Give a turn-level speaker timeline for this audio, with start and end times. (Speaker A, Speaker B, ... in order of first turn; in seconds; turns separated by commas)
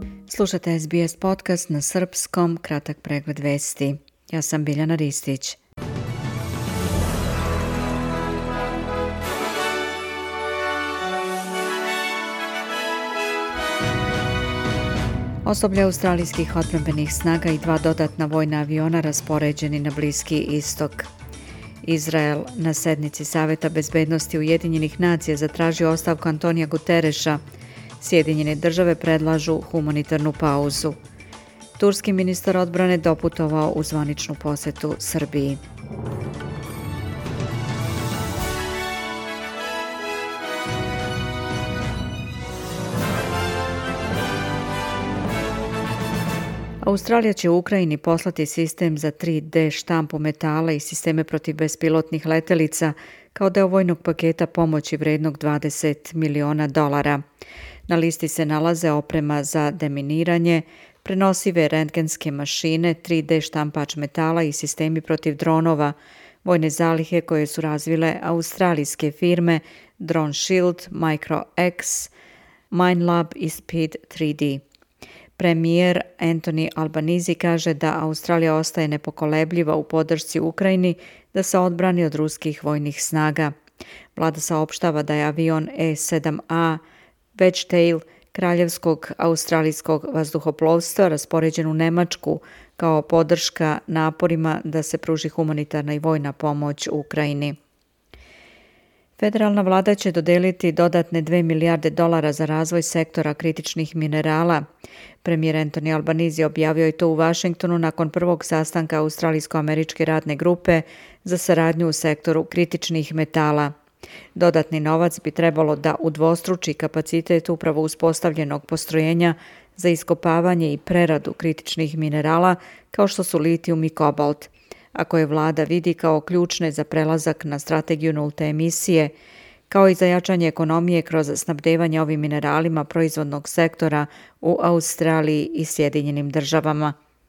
Speaker A: 0.3-5.6, Speaker A: 15.4-21.1, Speaker A: 21.8-27.4, Speaker A: 28.0-31.0, Speaker A: 31.8-35.6, Speaker A: 46.8-57.2, Speaker A: 57.9-72.1, Speaker A: 72.7-74.6, Speaker A: 75.4-83.5, Speaker A: 84.1-86.8, Speaker A: 87.3-97.5, Speaker A: 99.2-104.6, Speaker A: 105.2-113.7, Speaker A: 114.3-129.1, Speaker A: 129.7-136.9